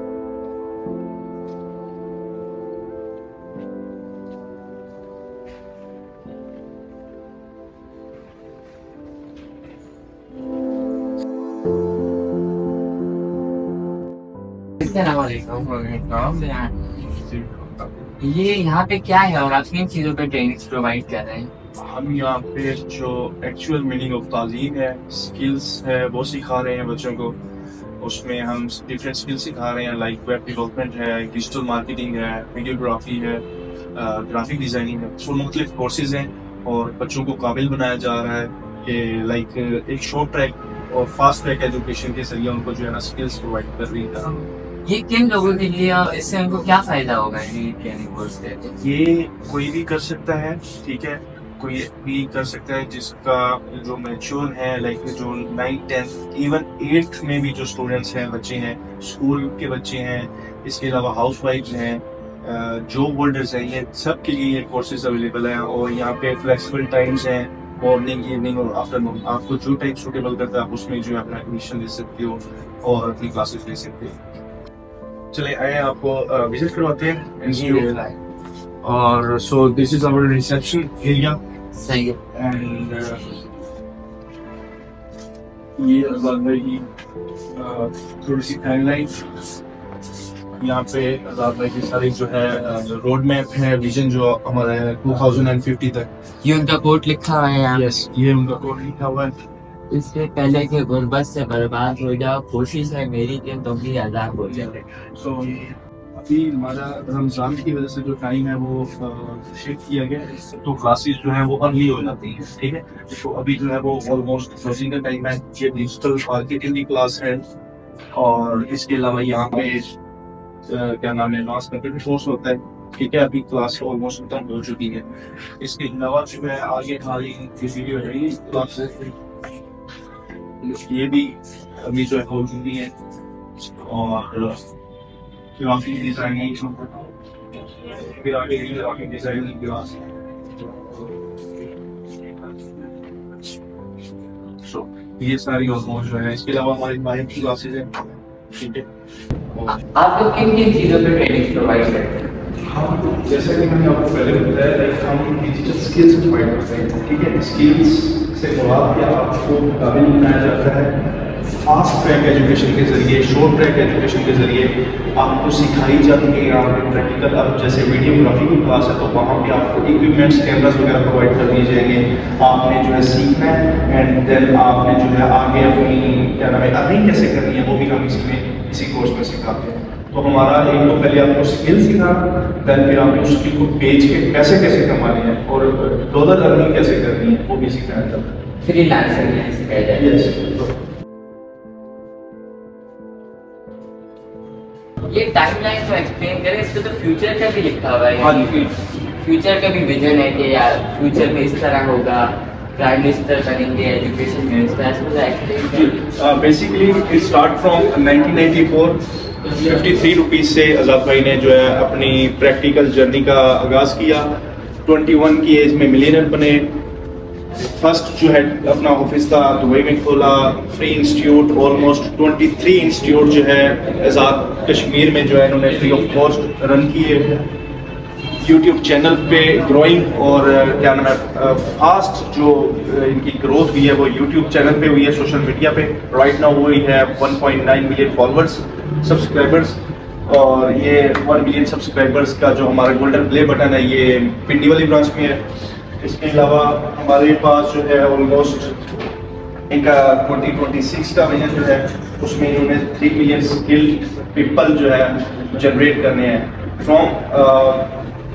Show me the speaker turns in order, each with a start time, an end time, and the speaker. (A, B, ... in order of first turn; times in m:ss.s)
0:14.8-0:16.8 A
0:17.3-0:17.9 B
0:18.2-0:21.5 A
0:21.8-0:27.4 B
0:28.0-0:44.4 B
0:44.8-0:48.7 A
0:48.8-1:14.2 B
1:15.3-1:18.0 B
1:17.5-1:18.2 A
1:18.8-1:21.4 B
1:21.8-1:22.2 A
1:22.3-1:23.4 B
1:25.8-1:26.9 B
1:27.5-1:29.2 B
1:30.6-1:36.1 B
1:36.4-1:38.0 A
1:37.7-1:39.3 B
1:39.9-1:44.8 A
1:44.6-1:57.4 B
1:58.1-1:59.9 B
2:00.7-2:09.1 B
2:10.6-2:13.0 B
2:13.6-2:14.6 B
2:15.5-2:17.1 B
2:17.7-2:21.6 B
2:22.3-2:22.7 B
2:24.6-2:28.9 B
2:29.5-2:29.8 B
2:29.7-2:32.2 A
2:32.6-3:08.3 B
3:08.6-3:10.1 A
3:10.0-3:10.7 B
3:15.1-3:26.0 A
3:18.2-3:18.7 B
3:25.7-3:34.3 B
3:34.8-3:36.8 B
3:37.6-3:47.4 B
3:48.4-4:05.5 B
4:06.0-4:08.8 B
4:09.7-4:18.0 B